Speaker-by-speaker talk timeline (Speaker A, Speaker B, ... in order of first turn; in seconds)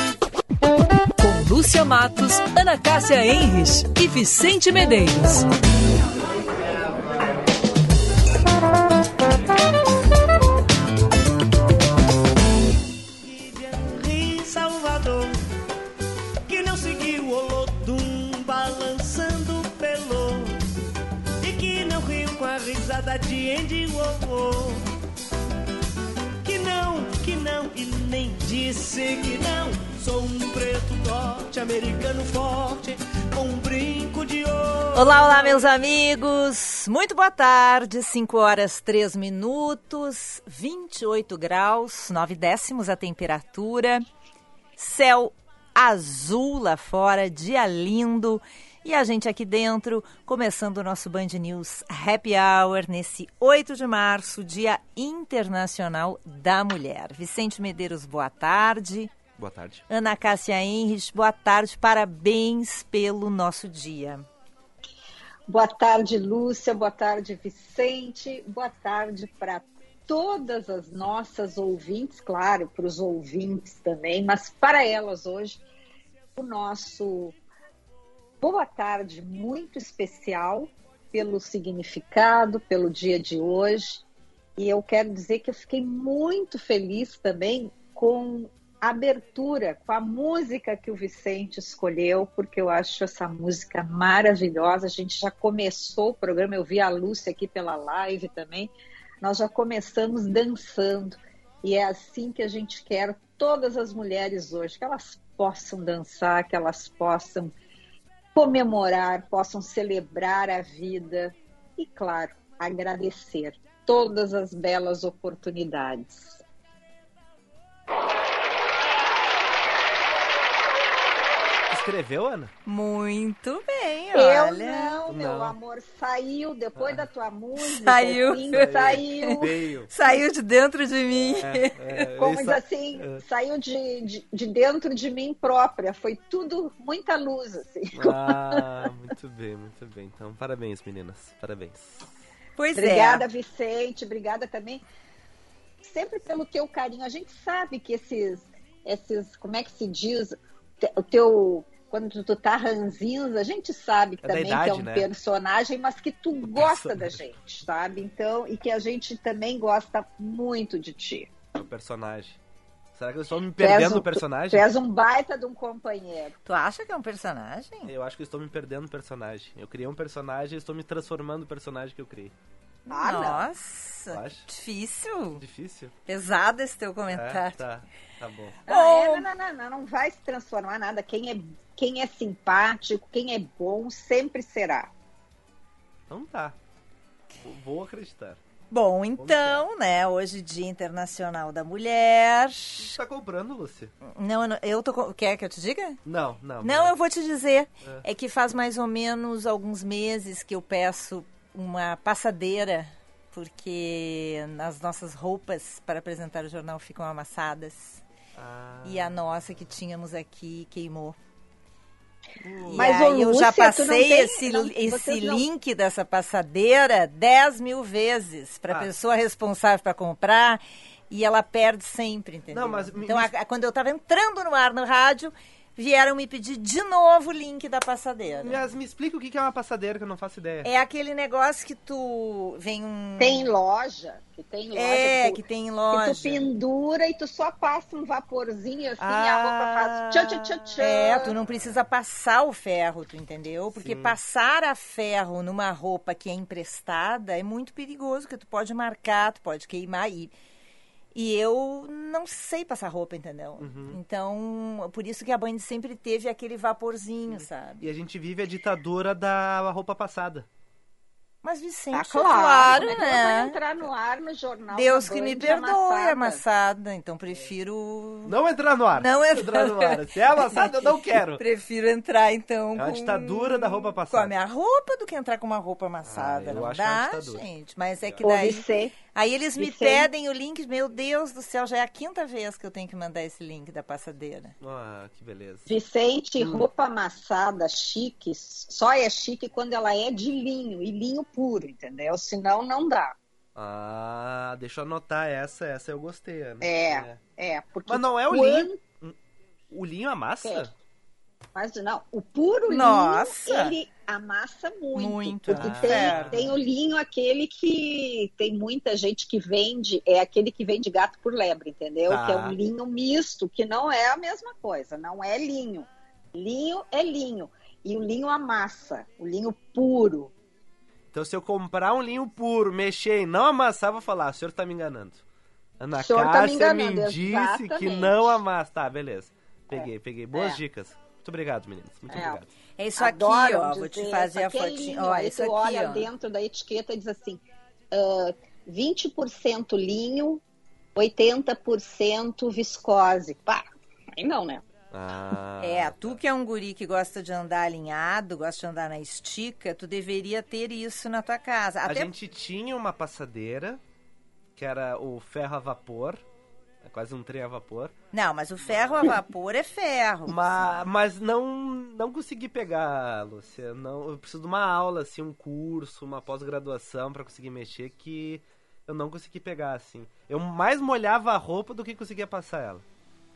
Speaker A: 1.2-5.5
Speaker B: 13.4-15.4, 16.5-20.6, 21.4-24.8, 26.4-35.5
Speaker C: 34.9-44.0, 44.8-59.1, 59.9-64.2, 122.6-125.1, 127.6-129.3, 129.9-131.9, 142.6-143.3, 166.4-167.9, 172.9-175.4, 176.1-177.6, 178.7-179.3, 188.7-192.9, 194.0-196.0, 196.6-208.0, 208.8-211.2, 212.6-228.6, 230.6-233.5, 234.7-236.5, 240.8-250.3, 251.1-257.9, 261.4-263.6, 264.7-268.4, 269.0-270.8, 271.3-284.5, 302.7-303.8, 304.9-306.4, 332.8-336.1, 345.6-352.1, 358.1-360.8
Speaker D: 59.4-59.8, 121.7-122.5, 125.1-125.5, 126.8-127.0, 128.5-129.9, 131.4-133.2, 137.9-142.1, 154.2-155.1, 156.6-157.3, 161.6-162.4, 163.0-164.7, 167.9-172.3, 174.1-174.5, 175.4-175.9, 177.1-178.6, 186.1-186.6, 187.4-188.4, 189.2-189.7, 192.8-193.9, 196.1-196.9, 208.3-209.2, 212.4-212.9, 222.5-223.3, 228.4-230.7, 239.0-241.8, 243.8-244.2, 253.6-254.0, 257.3-260.4, 268.2-271.4, 272.8-274.3, 276.0-277.4, 278.0-278.5, 284.6-285.8, 286.4-286.7, 293.5-297.2, 297.9-299.1, 299.7-300.7, 305.5-306.5, 312.1-312.6, 321.1-325.2, 325.8-332.5, 344.9-346.2, 351.8-353.8, 354.6-356.2, 356.8-357.9, 358.6-359.1, 360.3-372.8
Speaker E: 65.5-75.6, 76.4-77.4, 78.4-84.0, 84.6-107.5, 108.3-116.4, 124.1-129.6, 132.2-138.6, 142.8-144.8, 145.8-161.3, 163.6-166.3, 172.9-173.5, 178.7-184.9, 212.7-215.4, 233.2-241.3, 261.9-266.4, 278.2-278.9, 279.6-280.1, 285.7-293.1, 296.6-298.8, 301.5-320.3, 325.9-328.4, 329.7-330.6, 332.1-332.4, 333.0-340.4, 340.9-344.6